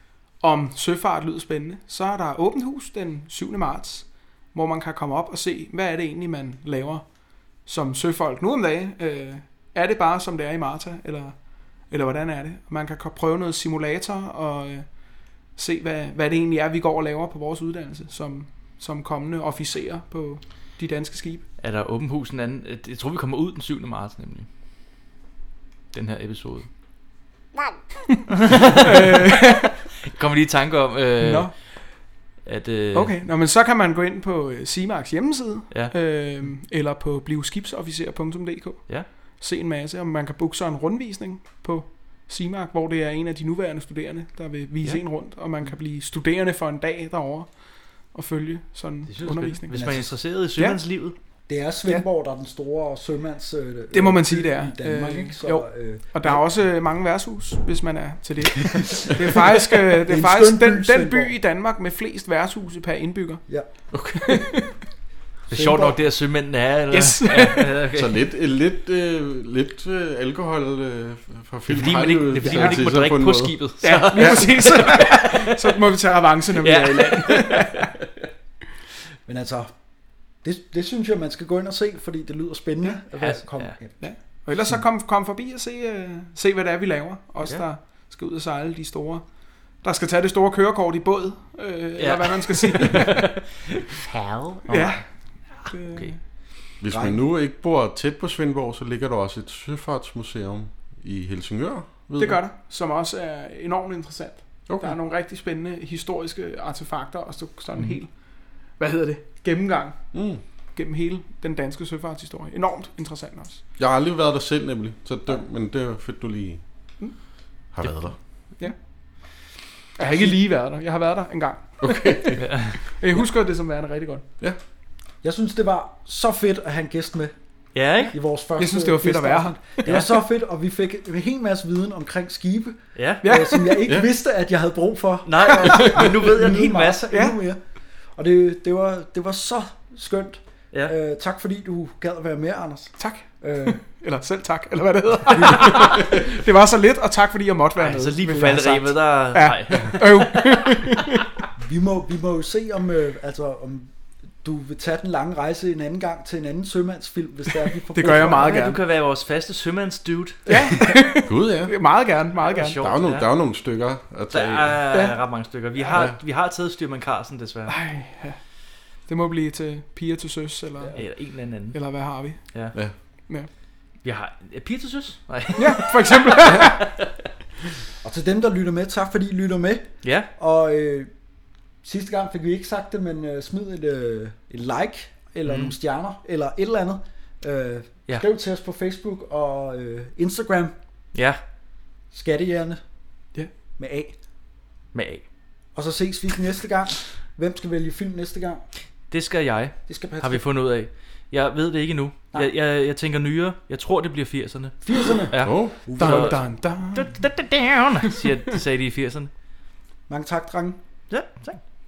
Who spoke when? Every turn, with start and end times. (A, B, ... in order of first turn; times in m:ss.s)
0:00.4-0:07.0 A
0:07.6-0:11.4 A
0:11.9-0:14.9 A
0:15.6-0:21.5 A
0:21.6-0:24.5 B
0:25.9-0:26.7 B
0:28.4-0:29.4 B
0:28.7-0:29.7 A
0:30.1-0:31.5 B
0:31.2-0:31.5 A
0:32.4-0:33.1 B
0:32.9-0:47.5 A
0:48.1-0:49.7 A
0:49.1-0:51.2 B
0:49.7-0:50.1 C
0:50.6-0:50.8 A
0:51.5-0:56.4 C
0:53.9-1:03.4 A
0:58.9-1:01.3 C
1:03.9-1:04.5 D
1:04.2-1:04.7 A
1:05.5-1:08.2 B
1:05.5-1:06.0 C
1:06.9-1:07.8 A
1:07.9-1:14.4 D
1:11.7-1:15.6 B
1:12.4-1:12.8 A
1:13.8-1:17.9 A
1:16.6-1:17.9 B
1:19.3-1:19.7 C
1:20.4-1:24.0 C
1:23.2-1:23.8 B
1:24.0-1:29.2 A
1:29.8-1:33.4 A
1:32.0-1:35.0 B
1:34.7-1:36.2 A
1:35.9-1:36.1 B
1:36.8-1:42.4 D
1:36.9-1:37.2 C
1:42.2-1:48.1 A
1:44.7-1:45.0 D
1:48.8-1:50.1 A
1:50.1-1:50.4 D
1:50.8-1:53.6 A
1:53.8-1:56.6 D
1:57.7-1:58.2 D
2:00.0-2:02.3 A
2:00.0-2:00.3 C
2:01.8-2:02.4 D
2:02.4-2:02.8 B
2:02.9-2:04.2 A
2:05.2-2:07.3 C
2:07.7-2:08.1 B
2:08.1-2:17.6 C
2:08.6-2:10.1 A
2:13.0-2:13.2 B
2:13.2-2:13.9 A
2:15.3-2:17.0 B
2:17.1-2:17.4 A
2:18.2-2:23.8 C
2:23.0-2:31.2 A
2:25.3-2:26.1 C
2:27.8-2:30.6 B
2:31.6-2:38.8 C
2:37.9-2:38.8 A
2:38.0-2:40.9 B
2:40.5-2:42.8 A
2:41.3-2:41.7 D
2:42.4-2:43.3 B
2:42.8-2:44.8 D
2:44.3-2:47.8 B
2:44.9-2:45.2 A
2:47.7-2:48.4 A
2:49.1-2:51.1 A
2:51.0-2:51.8 B
2:51.7-2:52.4 A
2:54.0-2:56.9 B
2:55.6-2:57.0 A
2:58.0-3:01.1 C
3:00.0-3:00.3 B
3:01.8-3:10.8 C
3:05.5-3:05.7 B
3:11.1-3:11.4 B
3:12.1-3:12.8 C
3:13.8-3:14.1 C
3:14.9-3:15.2 B
3:15.8-3:18.6 C
3:19.1-3:29.3 B
3:19.9-3:20.4 C
3:24.8-3:26.5 C
3:25.4-3:25.8 D
3:26.0-3:27.2 A
3:30.1-3:30.8 C
3:31.1-3:31.6 B